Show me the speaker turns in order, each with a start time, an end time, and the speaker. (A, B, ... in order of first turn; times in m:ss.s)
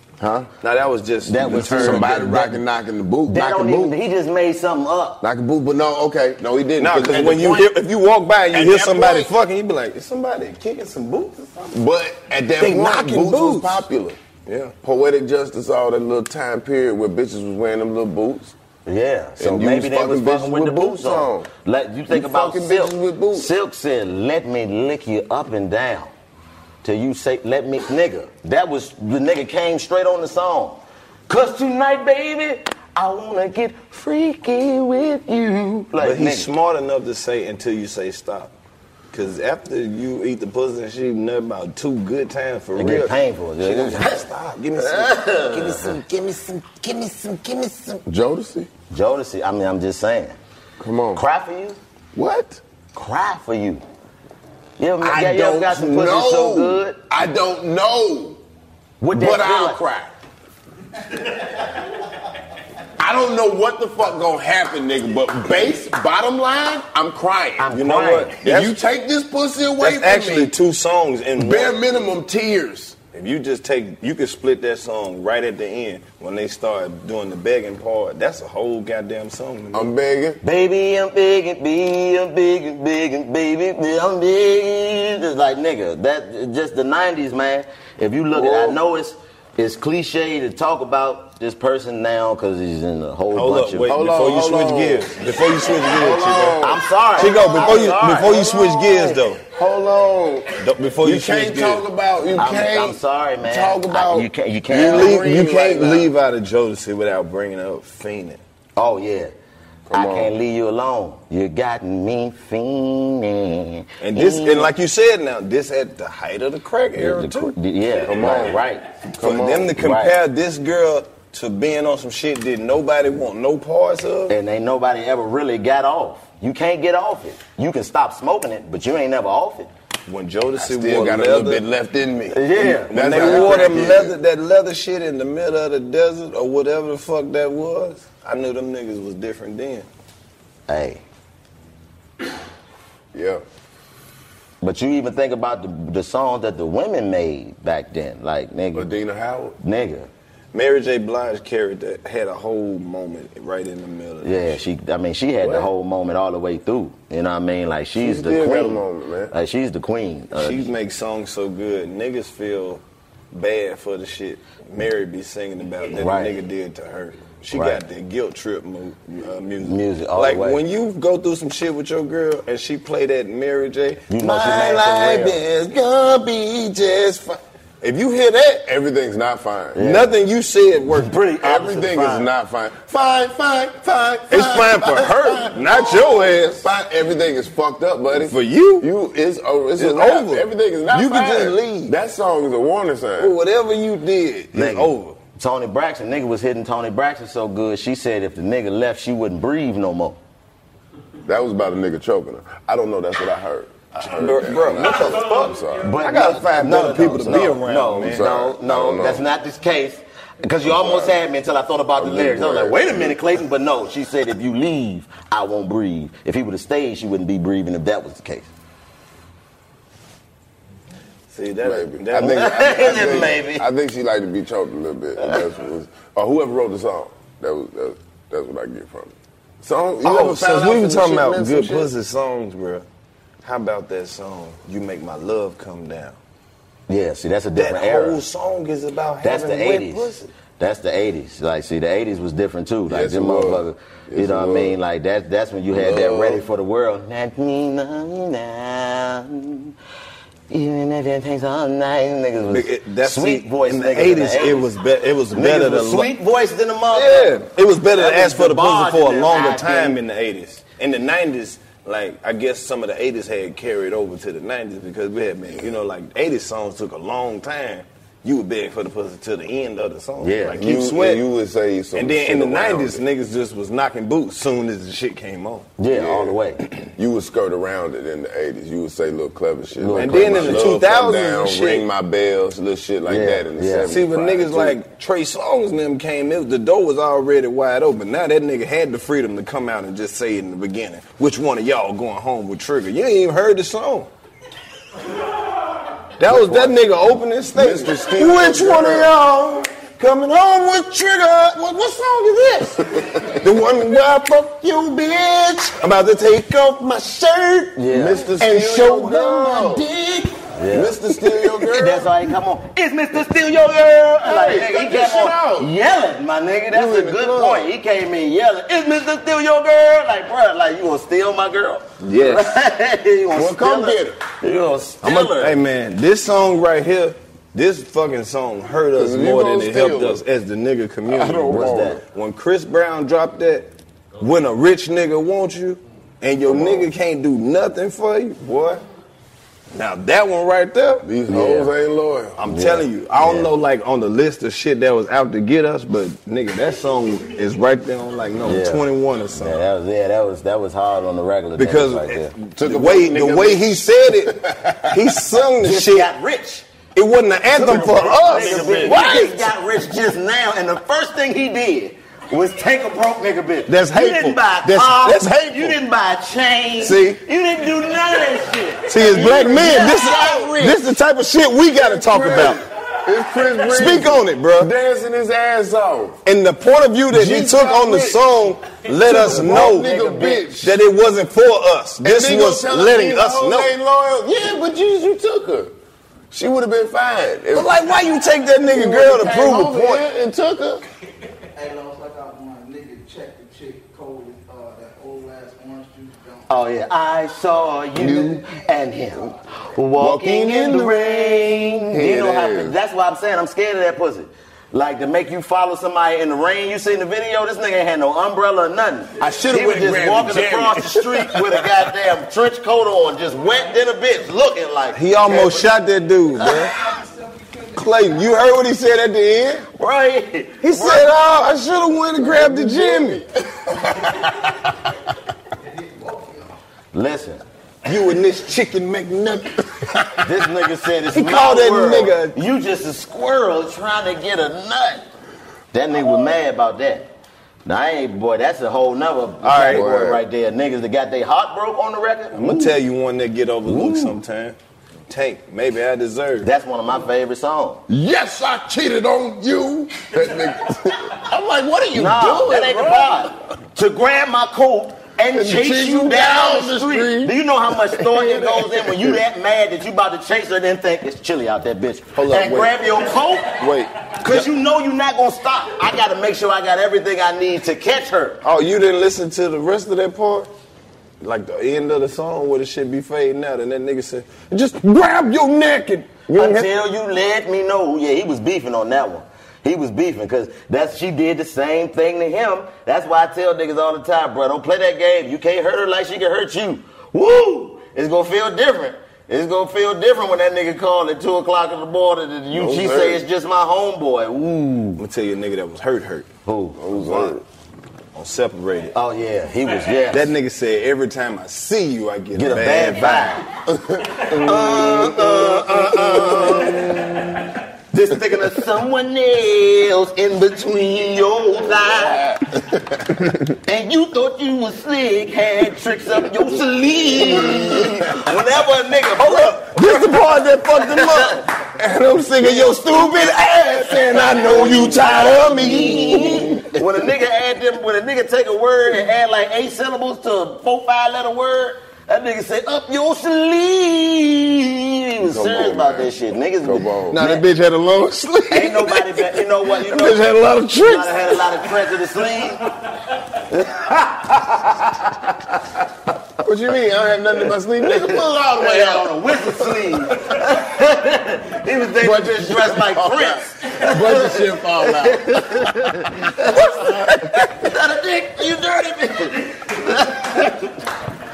0:00.2-0:00.5 A
0:00.6-0:02.5 B
0:01.3-0:02.6 C
0:01.4-0:04.0 A
0:03.3-0:05.2 C
0:05.2-0:07.8 A
0:06.8-0:11.8 B
0:08.5-0:09.3 A
0:11.7-0:14.2 A
0:12.6-0:13.8 B
0:14.5-0:14.7 B
0:14.8-0:18.6 A
0:18.9-0:26.1 C
0:19.4-0:21.5 A
0:22.1-0:23.5 A
0:26.8-0:36.5 C
0:36.0-0:38.5 B
0:39.1-0:48.0 B
0:42.8-0:46.0 C
0:48.1-0:48.7 A
0:48.9-0:50.4 C
0:50.8-0:51.2 A
0:51.1-0:51.8 C
0:52.2-0:52.6 A
0:52.9-0:53.8 C
0:54.8-0:57.0 C
0:55.0-0:58.4 A
0:59.0-0:59.8 C
0:59.1-1:00.1 A
1:03.0-1:07.8 A
1:07.6-1:08.4 C
1:07.7-1:08.8 B
1:08.4-1:10.5 A
1:09.8-1:11.8 B
1:11.4-1:13.0 A
1:13.1-1:19.9 B
1:19.7-1:20.4 A
1:20.4-1:34.0 C
1:28.3-1:28.8 A
1:33.3-1:36.6 B
1:33.9-1:35.2 A
1:35.8-1:36.8 A
1:36.6-1:39.2 C
1:37.2-1:39.4 B
1:39.5-1:46.1 A
1:40.6-1:41.8 B
1:42.3-1:45.4 C
1:44.7-1:48.4 B
1:48.8-1:49.3 C
1:49.9-1:50.3 A
1:49.9-1:54.7 C
1:54.0-1:57.5 B
1:57.0-1:58.9 C
1:58.0-1:58.6 A
1:59.2-2:04.3 B
1:59.2-1:59.8 A
1:59.8-2:00.2 C
2:04.3-2:09.7 C
2:10.1-2:11.6 B
2:10.6-2:14.2 A
2:12.3-2:13.9 C
2:12.9-2:19.9 B
2:20.7-2:21.0 C
2:23.1-2:23.4 A
2:24.6-2:28.9 C
2:28.7-2:29.6 A
2:29.6-2:30.1 C
2:30.5-2:34.6 B
2:34.2-2:40.7 C
2:35.4-2:35.7 A
2:38.0-2:39.3 A
2:40.3-2:42.8 B
2:43.3-2:58.6 B
2:46.0-2:46.4 C
2:47.5-2:47.8 C
2:49.6-2:50.6 C
2:54.1-2:55.4 C
2:58.6-2:59.8 A
2:59.8-3:00.1 C
2:59.8-3:01.2 B
3:00.9-3:02.3 C
3:01.4-3:13.4 A
3:04.3-3:06.7 B
3:08.2-3:08.9 B
3:09.8-3:11.9 B
3:13.2-3:15.2 B
3:14.5-3:20.2 C
3:21.2-3:26.0 A
3:24.0-3:28.3 B
3:24.8-3:25.2 C
3:25.7-3:38.5 C
3:28.1-3:29.2 A
3:30.6-3:31.2 A
3:32.0-3:33.2 A
3:41.3-3:43.4 B
3:41.6-3:51.9 A
3:42.2-3:43.7 C
3:50.0-3:52.9 B
3:53.4-3:56.2 B
3:56.9-3:58.2 C
3:57.6-4:00.3 B
3:59.2-4:09.7 C
4:02.9-4:04.8 A
4:05.7-4:06.4 A
4:10.5-4:14.7 C
4:12.5-4:16.1 B
4:15.3-4:20.0 C
4:16.9-4:31.2 B
4:30.2-4:30.6 C
4:30.5-4:33.0 A
4:31.9-4:35.7 B
4:35.8-4:36.6 C
4:35.9-4:44.8 A
4:39.8-4:40.8 C
4:39.9-4:41.9 B
4:43.1-4:44.0 C
4:43.9-4:54.1 B
4:56.2-5:05.1 B
4:56.2-4:56.8 A
4:57.5-4:59.1 A
5:02.9-5:03.4 A
5:05.7-5:10.3 B
5:07.8-5:08.2 C
5:07.9-5:09.9 A
5:10.5-5:11.0 C
5:10.7-5:12.1 A
5:11.5-5:25.6 C
5:14.2-5:15.7 A
5:16.7-5:17.7 A
5:22.0-5:22.5 B
5:23.3-5:24.2 A
5:25.0-5:38.8 B
5:28.9-5:30.2 A
5:31.1-5:32.0 A
5:31.5-5:32.0 C
5:36.5-5:36.9 A
5:39.7-5:41.1 B
5:41.0-5:42.4 A
5:41.3-5:41.7 C
5:42.4-5:49.6 B
5:42.5-5:43.5 C
5:48.4-5:52.3 C
5:51.6-5:54.4 B
5:52.6-5:55.2 A
5:54.9-5:56.1 B
5:55.6-5:56.6 C
5:57.0-5:59.5 B
5:57.5-6:10.7 C
5:57.6-5:59.2 A
6:03.7-6:05.8 B
6:06.8-6:07.2 B
6:08.9-6:12.6 B
6:09.0-6:10.8 A
6:11.8-6:16.2 A
6:13.6-6:14.7 B
6:16.2-6:19.9 B
6:17.1-6:18.3 A
6:19.0-6:20.8 A
6:19.2-6:20.5 C
6:20.6-6:23.7 B
6:22.0-6:25.7 A
6:26.3-6:27.9 A
6:27.5-6:30.0 B
6:28.6-6:30.8 A
6:31.8-6:36.1 D
6:36.5-6:55.8 C
6:38.0-6:38.4 A
6:40.0-6:42.8 A
6:49.3-6:50.7 B
6:49.3-6:51.3 A
6:55.0-6:56.8 B
6:56.4-6:56.7 C
6:57.7-6:59.7 B
6:59.8-7:01.1 C
7:00.6-7:03.2 B
7:02.2-7:03.3 A
7:06.9-7:07.4 C
7:07.8-7:10.1 B
7:10.2-7:15.0 C
7:11.1-7:12.4 B
7:15.7-7:17.1 C
7:17.6-7:22.8 C
7:19.4-7:19.9 B
7:19.7-7:20.3 A
7:22.3-7:24.6 B
7:23.7-7:24.2 C
7:25.1-7:26.5 B
7:26.4-7:27.8 C
7:27.9-7:33.3 A
7:31.9-7:43.6 C
7:35.3-7:39.2 A
7:42.2-7:42.9 B
7:43.5-7:44.5 B
7:44.2-7:48.4 C
7:48.4-7:50.5 B
7:51.2-7:56.7 B
7:56.3-8:15.0 C
8:12.5-8:13.2 A
8:15.0-8:16.3 B
8:16.5-8:16.8 C
8:16.8-8:17.4 A
8:16.9-8:17.4 B
8:18.2-8:19.0 B
8:18.9-8:20.3 C
8:20.1-8:23.4 B
8:22.3-8:23.5 C
8:23.7-8:27.5 A
8:24.3-8:26.9 C
8:27.9-8:32.4 C
8:33.7-8:41.5 C
8:37.4-8:38.1 A
8:39.2-8:46.6 B
8:42.4-8:57.4 C
8:46.2-8:46.6 A
8:55.2-8:57.3 A
8:57.1-9:01.5 B
8:58.5-9:02.7 C
9:03.5-9:04.5 C
9:06.4-9:09.1 A
9:07.8-9:20.8 C
9:12.0-9:17.1 A